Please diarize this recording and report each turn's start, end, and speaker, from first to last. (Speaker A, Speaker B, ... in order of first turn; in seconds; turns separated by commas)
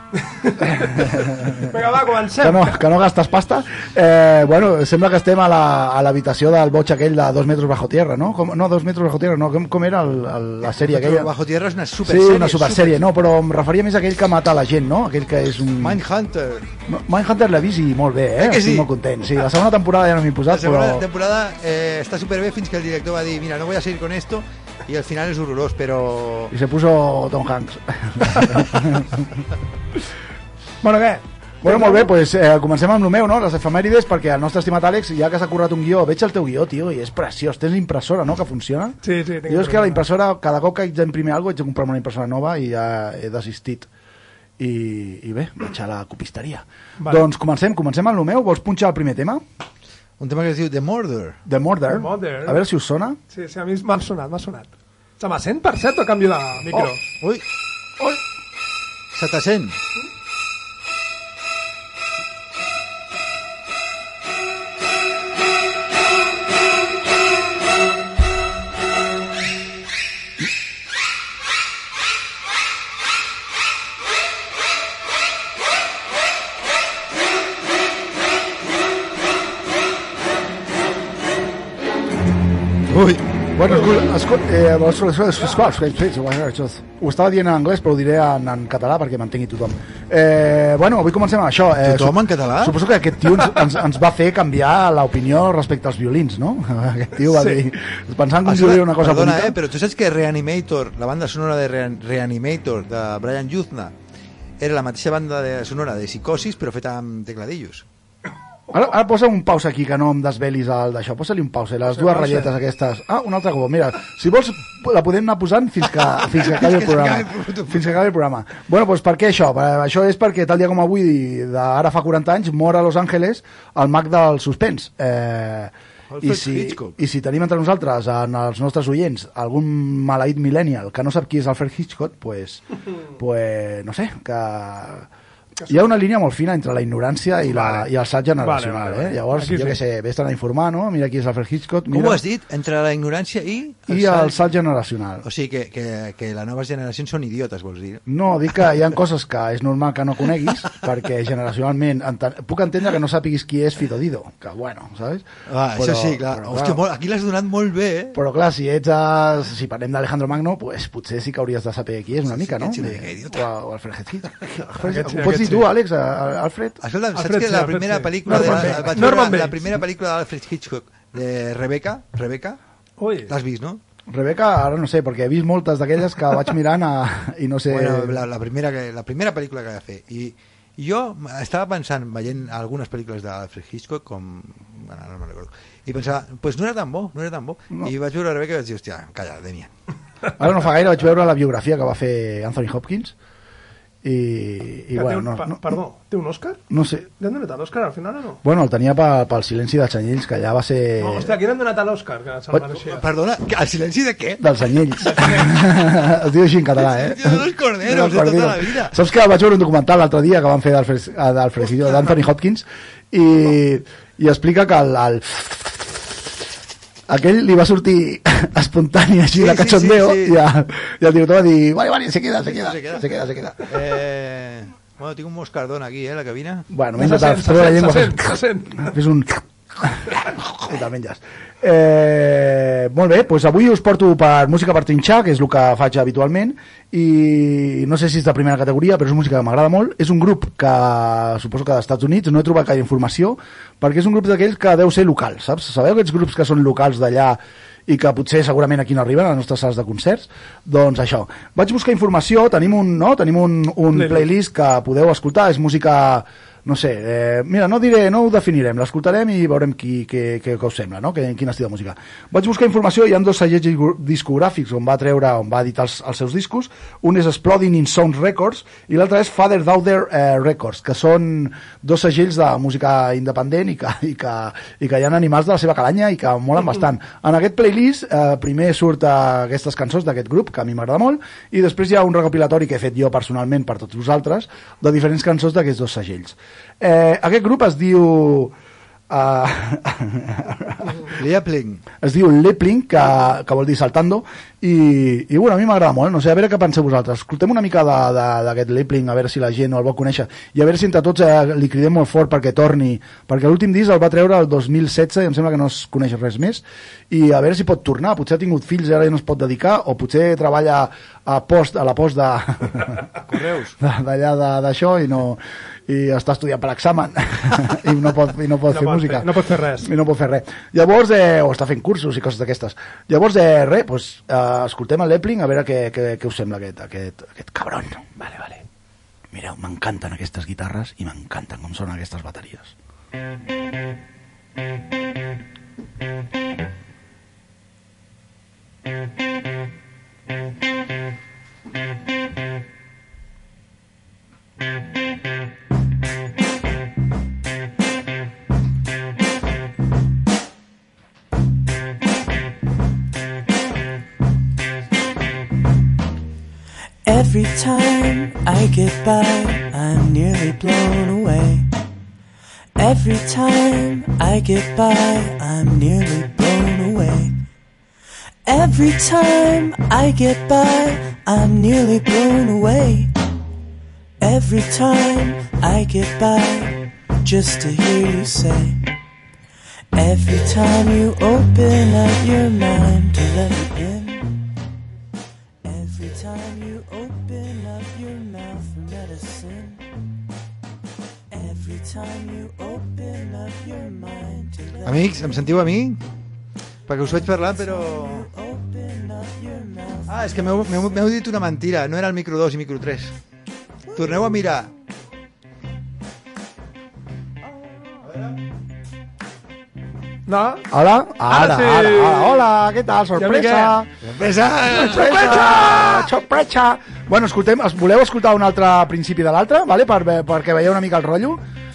Speaker A: 0.3-2.8, Speaker B: 1.0-1.8, Speaker B: 2.4-11.3, Speaker C: 10.7-13.0, Speaker B: 12.0-16.0, Speaker C: 15.8-16.7, Speaker B: 16.9-21.1, Speaker C: 18.4-18.9, Speaker C: 20.5-26.5, Speaker B: 26.5-29.3, Speaker A: 30.8-32.1, Speaker B: 31.6-43.9, Speaker A: 39.0-40.0, Speaker B: 44.6-49.4, Speaker C: 50.2-51.4, Speaker B: 51.5-53.2, Speaker A: 51.9-52.6, Speaker A: 53.3-57.0, Speaker C: 59.1-59.8, Speaker C: 82.9-83.3, Speaker B: 83.5-99.6, Speaker C: 91.8-92.8, Speaker A: 97.3-97.6, Speaker C: 98.5-104.0, Speaker C: 104.6-107.8, Speaker B: 108.7-132.6, Speaker A: 112.0-112.5, Speaker C: 116.1-118.0, Speaker C: 126.1-127.0, Speaker B: 133.2-135.1, Speaker B: 135.7-142.2, Speaker A: 137.5-139.8, Speaker C: 141.9-144.5, Speaker B: 143.9-145.2, Speaker C: 145.2-148.0, Speaker B: 148.1-156.8, Speaker C: 155.5-158.2, Speaker B: 158.2-166.8, Speaker C: 162.2-163.5, Speaker A: 164.9-165.7, Speaker C: 166.8-172.6, Speaker A: 167.2-169.7, Speaker B: 168.3-169.1, Speaker A: 173.0-173.3, Speaker C: 173.3-173.8, Speaker B: 174.1-178.2, Speaker C: 177.7-189.7, Speaker B: 190.4-193.2, Speaker B: 194.0-195.6, Speaker A: 194.9-196.6, Speaker B: 196.7-197.1, Speaker A: 197.2-198.4, Speaker B: 198.4-201.4, Speaker A: 201.0-203.1, Speaker C: 202.5-204.4, Speaker B: 204.4-216.2, Speaker A: 205.1-205.5, Speaker C: 206.8-209.0, Speaker B: 217.1-223.7, Speaker C: 219.3-220.4, Speaker C: 222.5-226.7, Speaker B: 226.7-288.5, Speaker A: 227.0-228.9, Speaker A: 253.9-254.2, Speaker B: 289.1-290.9, Speaker C: 291.1-291.8, Speaker B: 292.0-313.0, Speaker C: 313.3-313.8, Speaker B: 313.8-328.1, Speaker A: 318.7-319.9, Speaker B: 329.3-332.7, Speaker D: 357.1-361.7, Speaker D: 362.8-367.4, Speaker D: 368.5-373.2, Speaker D: 374.2-378.8, Speaker D: 379.9-384.4, Speaker D: 385.6-389.9, Speaker D: 391.3-395.2, Speaker C: 394.8-396.0, Speaker C: 396.9-398.3, Speaker D: 398.1-400.1, Speaker C: 400.1-403.2, Speaker C: 403.9-404.7, Speaker A: 410.3-410.7, Speaker B: 410.7-413.9, Speaker A: 411.3-412.5, Speaker A: 413.2-413.8, Speaker C: 414.0-415.4, Speaker B: 414.6-421.4